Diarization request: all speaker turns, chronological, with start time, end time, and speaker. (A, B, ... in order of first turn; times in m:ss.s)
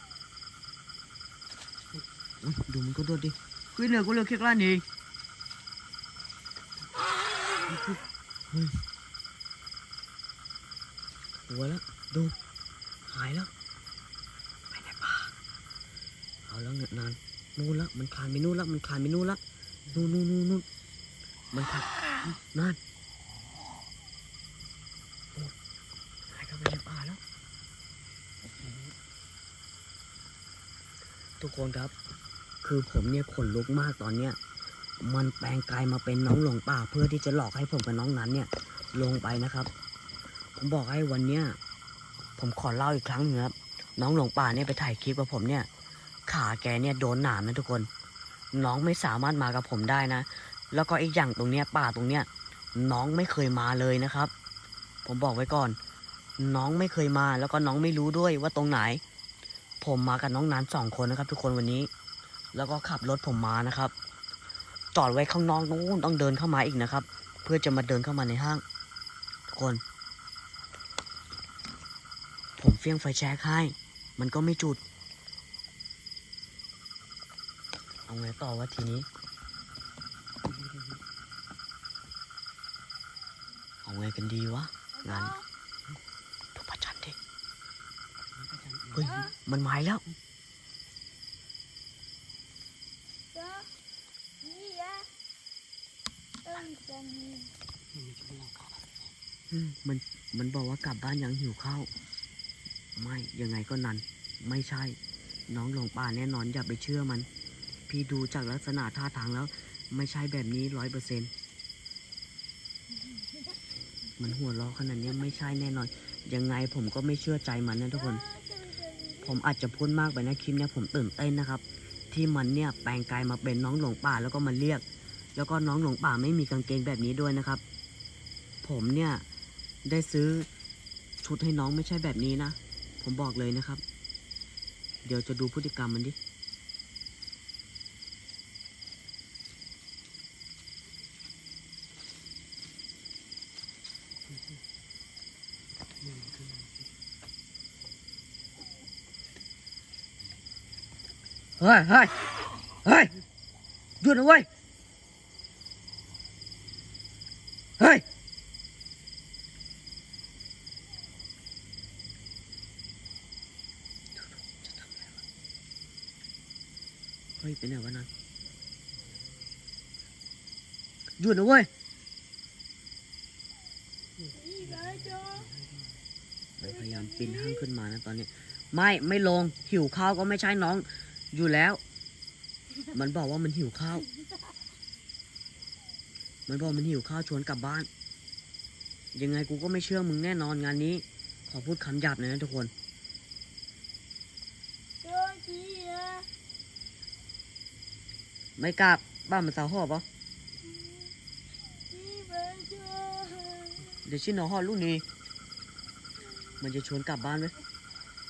0:02.4-0:04.8 A
0:07.6-0:08.0 B
0:08.5-0:08.8 A
0:11.5-0:12.4 A
0:13.1-0:13.5 A
0:14.7-0:15.3 A
0:16.5-0:19.4 A
0:19.9-0:20.6 A
0:21.5-0:22.8 A
0:26.3-0:27.2 A
0:28.6-0:28.9 B
0:31.4-0:31.9 A
0:32.6-0:34.4 A
0:35.0-0:39.7 A
0:40.6-0:41.6 A
0:42.4-0:45.7 A
0:46.3-0:47.9 A
0:48.5-0:54.3 A
0:55.0-0:55.8 A
0:56.4-0:59.0 A
0:59.8-1:01.9 A
1:02.5-1:03.9 A
1:04.9-1:08.6 A
1:09.5-1:09.8 A
1:12.6-1:14.8 A
1:18.1-1:19.1 A
1:20.4-1:21.0 B
1:23.8-1:25.4 A
1:26.5-1:27.2 A
1:28.3-1:29.2 B
1:28.9-1:30.0 A
1:33.4-1:33.6 C
1:34.4-1:35.0 C
1:36.5-1:37.5 C
1:37.9-1:39.1 B
1:39.5-1:41.9 A
1:43.0-1:45.0 A
1:45.5-1:47.3 A
1:47.9-1:51.3 A
1:54.2-1:58.2 A
1:59.2-2:04.8 A
2:05.4-2:07.6 A
2:08.6-2:09.2 A
2:09.8-2:10.5 A
2:11.2-2:13.8 A
2:15.0-2:16.2 A
2:24.3-2:24.6 B
2:26.0-2:26.9 B
2:31.6-2:32.1 A
2:32.8-2:33.1 A
2:34.0-2:34.5 A
2:37.8-2:38.0 A
2:44.2-2:45.1 A
2:47.4-2:48.1 A
2:51.2-2:51.7 A
2:54.2-2:56.0 B
2:56.6-3:01.8 A
3:02.9-3:04.0 A
3:06.5-3:07.9 A
3:09.1-3:12.7 A
3:15.0-3:16.3 C
3:18.6-3:20.0 A
3:21.9-3:23.7 C
3:24.0-3:25.0 A
3:26.6-3:27.5 A